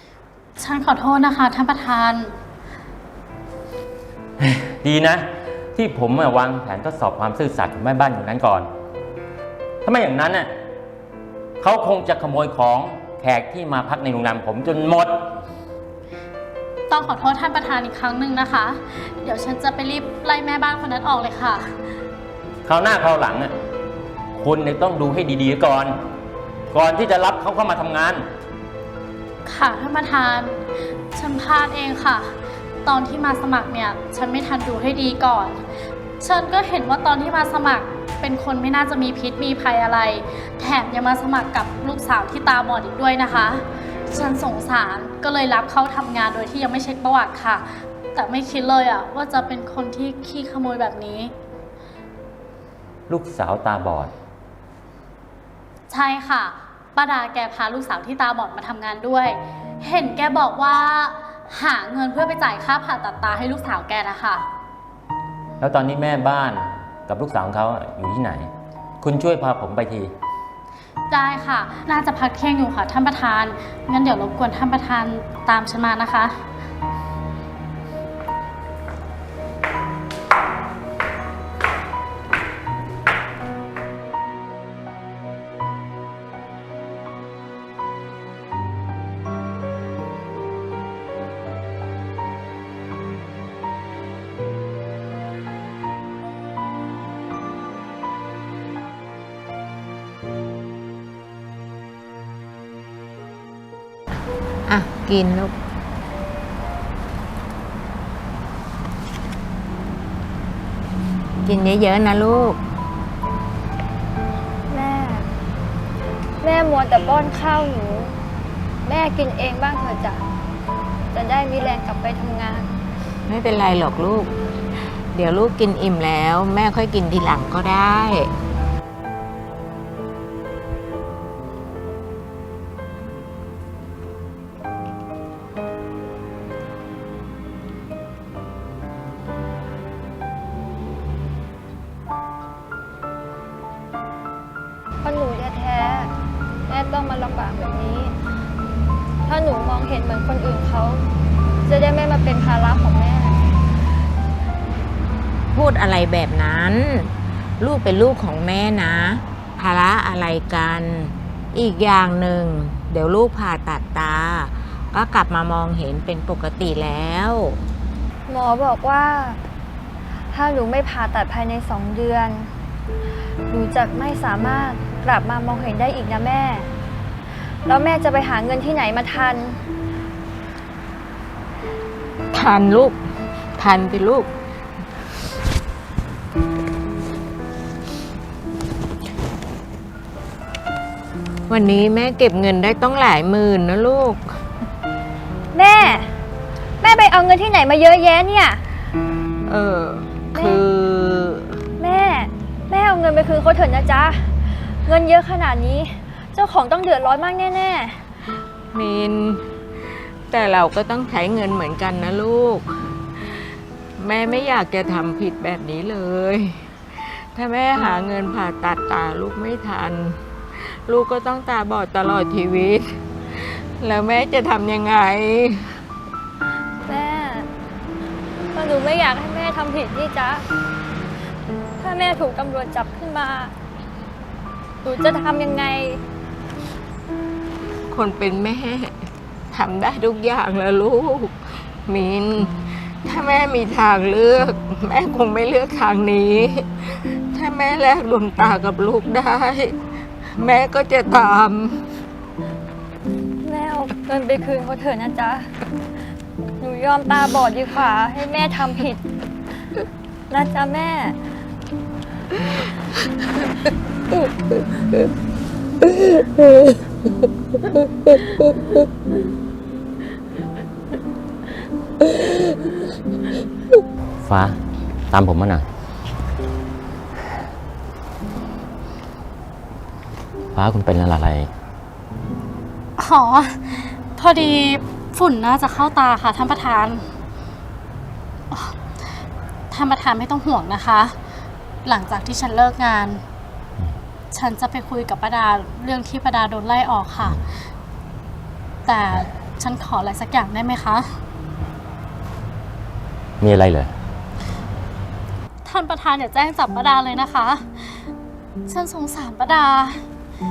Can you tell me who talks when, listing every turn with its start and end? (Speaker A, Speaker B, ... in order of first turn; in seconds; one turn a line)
Speaker A: 0.6-2.3
Speaker B: 4.4-8.7
Speaker B: 9.8-10.5
Speaker B: 11.6-15.2
Speaker A: 16.9-21.7
Speaker B: 22.6-23.5
Speaker B: 24.4-25.9
Speaker B: 26.7-28.2
Speaker A: 29.5-32.3
Speaker A: 32.9-51.3
Speaker B: 53.1-54.1
Speaker A: 55.9-64.5
Speaker B: 65.6-68.5
Speaker B: 69.0-70.1
Speaker A: 71.1-76.3
Speaker C: 104.7-105.5
Speaker C: 111.4-112.6
Speaker D: 114.7-115.3
Speaker D: 116.4-118.1
Speaker D: 118.8-120.2
Speaker D: 121.1-122.7
Speaker C: 123.3-124.3
Speaker C: 125.1-128.3
Speaker D: 145.0-146.1
Speaker D: 146.7-148.1
Speaker D: 149.2-151.0
Speaker D: 151.7-153.5
Speaker C: 155.5-167.6
Speaker D: 168.3-169.4
Speaker D: 170.3-172.5
Speaker D: 173.5-176.7
Speaker D: 177.7-179.6
Speaker C: 182.3-183.0
Speaker C: 183.6-184.3
Speaker C: 191.5-194.3
Speaker D: 195.5-196.1
Speaker D: 196.8-198.6
Speaker C: 199.5-201.6
Speaker D: 200.3-200.6
Speaker D: 201.8-208.0
Speaker C: 208.7-225.8
Speaker D: 226.8-227.5
Speaker D: 228.5-230.5
Speaker D: 231.8-233.5
Speaker D: 234.8-236.0
Speaker C: 237.9-239.0
Speaker C: 239.5-251.8
Speaker D: 253.4-255.5
Speaker D: 256.6-259.0
Speaker D: 260.3-261.2
Speaker B: 274.2-274.6
Speaker B: 275.1-275.6
Speaker B: 280.5-281.5
Speaker A: 283.0-287.0
Speaker A: 288.5-288.8
Speaker A: 289.7-291.2
Speaker A: 291.8-293.2
Speaker A: 294.3-297.4
Speaker A: 298.9-301.1
Speaker B: 303.4-303.9
Speaker A: 305.6-308.1
Speaker A: 308.7-310.0